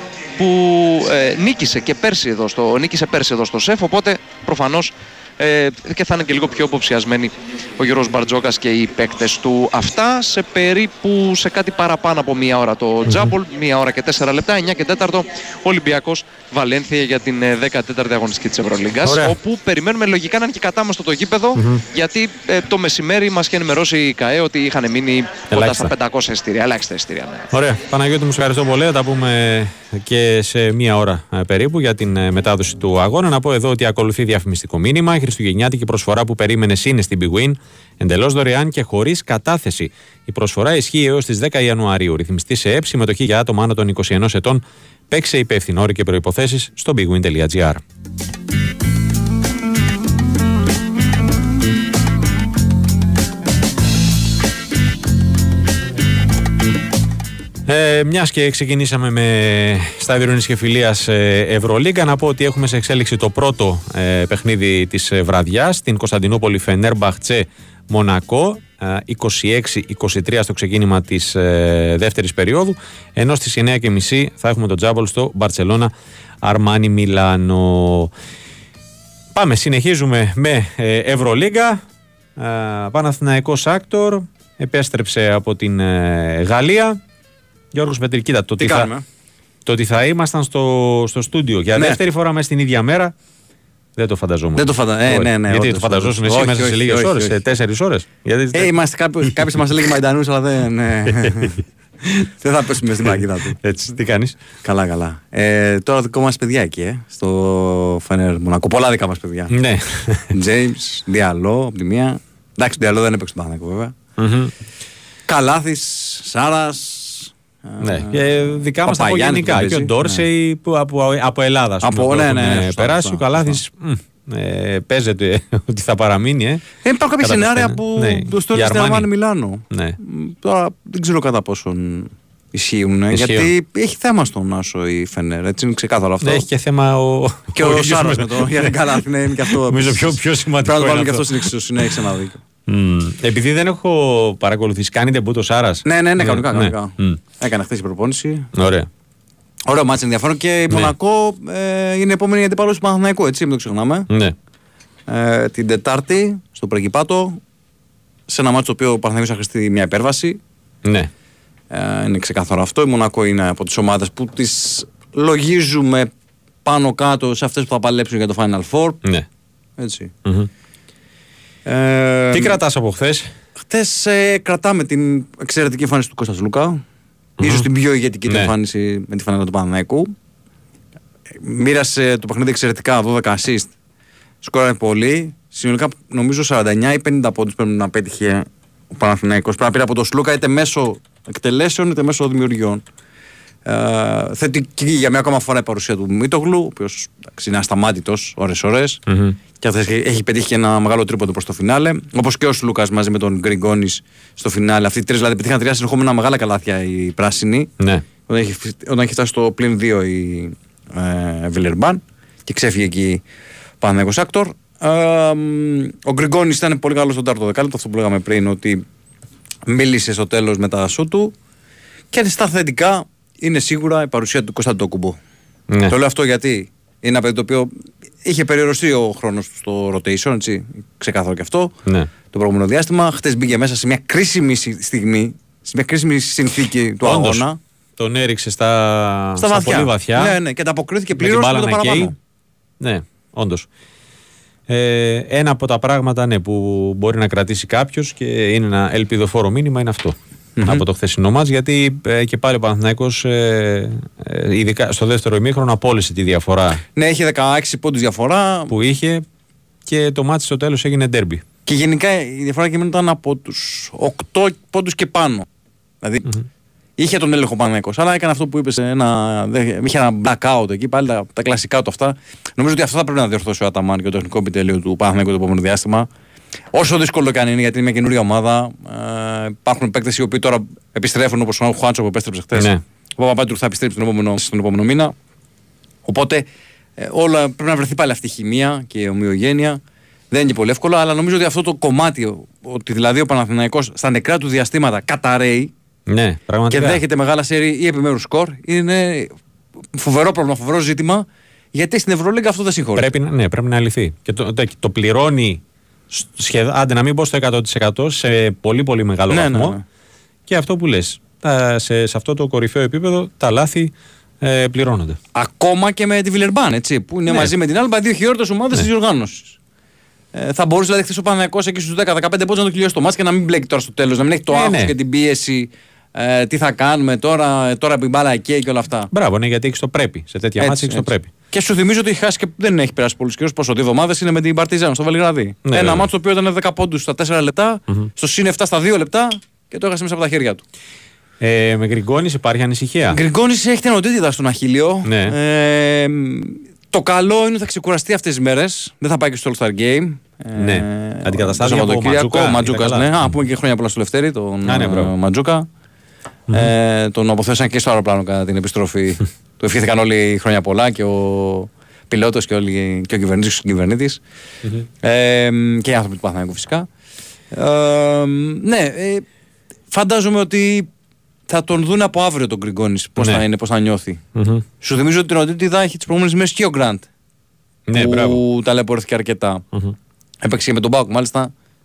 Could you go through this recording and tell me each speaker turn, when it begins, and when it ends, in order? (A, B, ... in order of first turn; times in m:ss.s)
0:00.4-0:27.5 A
0:13.0-0:13.3 B
0:19.0-0:19.3 B
0:21.6-0:21.8 B
0:25.5-0:25.9 B
0:27.5-0:47.8 B
0:57.7-1:18.1 B
1:19.3-1:21.8 B
1:22.4-1:27.0 B
1:27.7-1:28.9 B
1:28.6-1:29.0 C
1:29.6-1:33.1 B
1:34.0-1:38.7 B
1:34.6-1:37.4 C
1:38.5-1:41.6 C
1:41.2-1:41.5 B
1:42.4-1:43.6 C
1:43.1-1:44.4 B
1:44.6-1:49.5 C
1:49.5-1:50.3 B
1:50.3-1:54.0 C
1:54.2-1:54.5 B
1:55.3-2:00.2 C
1:57.8-2:06.7 B
2:01.8-2:03.6 C
2:06.8-2:16.5 C
2:07.2-2:09.1 B
2:09.7-2:10.0 B
2:13.1-2:13.5 B
2:16.2-2:18.7 B
2:17.5-2:22.4 C
2:19.7-2:21.5 B
2:22.7-2:27.2 B
2:25.8-2:28.5 C
2:28.5-2:28.9 B
2:29.7-2:34.1 C
2:34.1-2:34.4 B
2:35.1-2:37.4 C
2:38.3-2:40.4 C
2:40.8-2:41.1 B
2:41.7-2:46.1 C
2:46.6-2:49.0 C
2:49.8-2:50.1 C
2:51.7-2:52.6 C
2:52.3-2:53.3 B
2:53.6-2:56.8 C
2:57.4-3:00.1 C
2:57.4-2:57.7 B
2:58.3-2:58.5 B
3:01.3-3:03.7 C
3:04.4-3:12.8 C
3:13.6-3:19.0 C
3:19.1-3:19.4 B
3:19.6-3:27.7 C
3:27.8-3:28.0 B
3:28.3-3:33.2 C
3:33.8-3:38.8 C
3:39.7-3:41.4 C
3:42.1-3:45.2 C
3:45.9-3:47.7 C
3:48.2-3:51.8 C
3:52.3-3:57.6 C
3:57.0-3:57.5 B
3:58.0-4:00.4 B
3:59.4-4:02.2 C
4:01.2-4:02.1 B
4:02.8-4:03.7 B
4:04.7-4:16.8 B
4:10.6-4:10.8 C
4:17.0-4:18.7 C
4:18.7-4:19.2 B
4:19.9-4:21.4 B
4:21.7-4:25.5 C
4:26.0-4:26.4 C
4:27.0-4:36.1 C
4:36.7-4:45.2 C
4:42.6-4:42.8 B
4:46.0-4:49.8 C
4:50.3-4:55.7 C
4:56.1-4:57.0 B
4:56.7-4:59.3 C
4:59.9-5:03.1 C
5:03.0-5:05.6 B
5:06.1-5:09.8 B
5:09.3-5:09.8 C
5:10.5-5:15.2 B
5:15.4-5:19.6 C
5:17.3-5:17.5 B
5:20.3-5:29.1 C
5:24.5-5:24.9 B
5:29.1-5:31.3 B
5:30.6-5:40.6 C
5:35.7-5:36.1 B
5:41.4-5:43.2 B
5:43.1-5:55.7 C
5:45.0-5:45.4 B
5:50.6-5:53.3 B
5:54.7-5:55.1 B
5:56.5-6:04.2 C
6:05.0-6:06.9 C
6:07.5-6:09.2 C
6:09.9-6:10.9 C
6:11.5-6:14.2 C
6:13.2-6:13.4 B
6:14.4-6:14.6 B
6:14.8-6:17.1 C
6:17.9-6:18.4 B
6:17.9-6:19.6 C
6:20.4-6:21.5 C